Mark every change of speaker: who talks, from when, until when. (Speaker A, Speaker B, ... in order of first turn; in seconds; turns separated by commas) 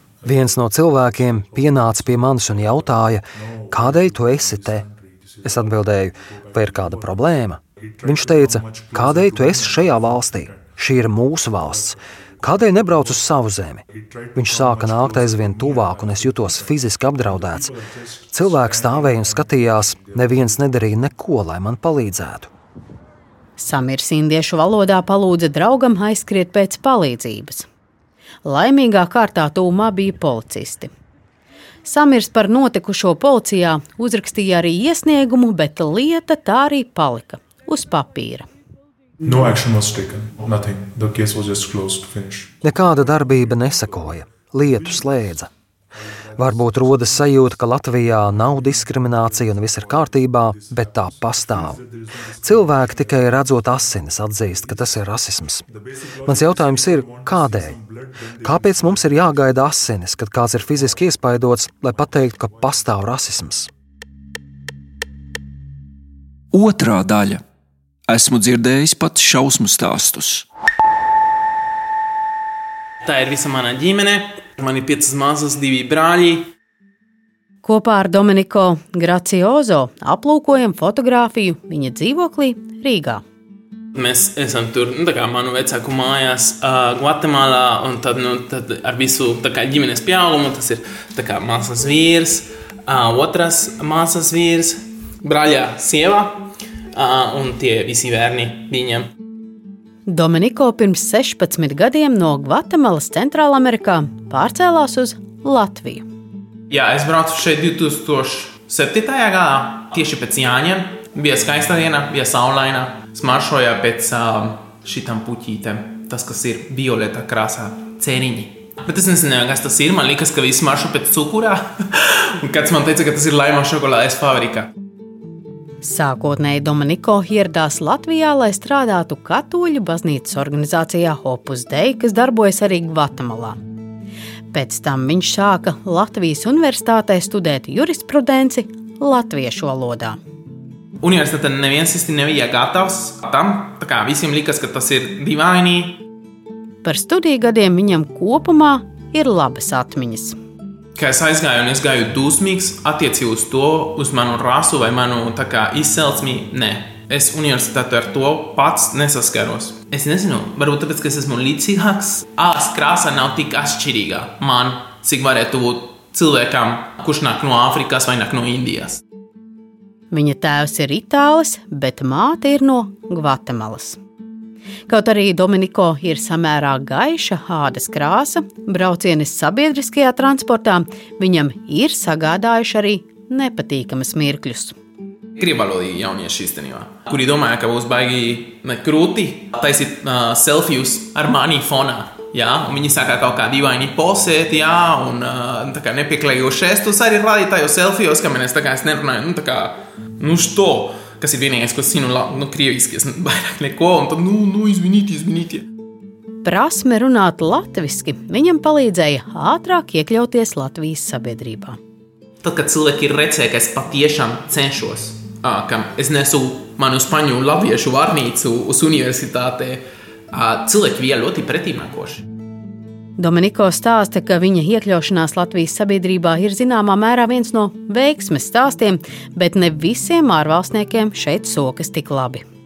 Speaker A: 0.2-4.8, Speaker B: 1.4-5.8, Speaker A: 5.4-13.8, Speaker B: 6.5-7.2, Speaker B: 7.8-10.8, Speaker B: 11.6-13.2, Speaker B: 13.9-20.6, Speaker A: 14.3-17.7, Speaker A: 18.3-22.5, Speaker C: 23.6-27.7, Speaker C: 28.4-30.9, Speaker C: 31.9-38.5, Speaker B: 39.2-42.6, Speaker A: 42.6-45.5, Speaker B: 46.3-47.3, Speaker A: 46.4-51.8, Speaker B: 48.5-53.1, Speaker A: 52.4-55.6, Speaker B: 54.5-54.9, Speaker B: 55.7-59.1, Speaker A: 56.2-57.8, Speaker A: 58.4-63.7, Speaker D: 66.5-67.4, Speaker D: 68.1-70.5, Speaker E: 73.0-76.5, Speaker C: 77.6-83.2, Speaker E: 83.9-99.1, Speaker C: 100.1-106.0, Speaker E: 106.7-124.7, Speaker C: 125.8-133.6, Speaker C: 134.5-140.2, Speaker E: 141.0-146.0, Speaker C: 146.8-150.4, Speaker E: 150.9-169.0, Speaker C: 170.1-174.0, Speaker C: 174.9-184.8, Speaker E: 185.4-205.7, Speaker C: 206.4-211.8, Speaker E: 212.4-222.2, Speaker C: 223.2-232.4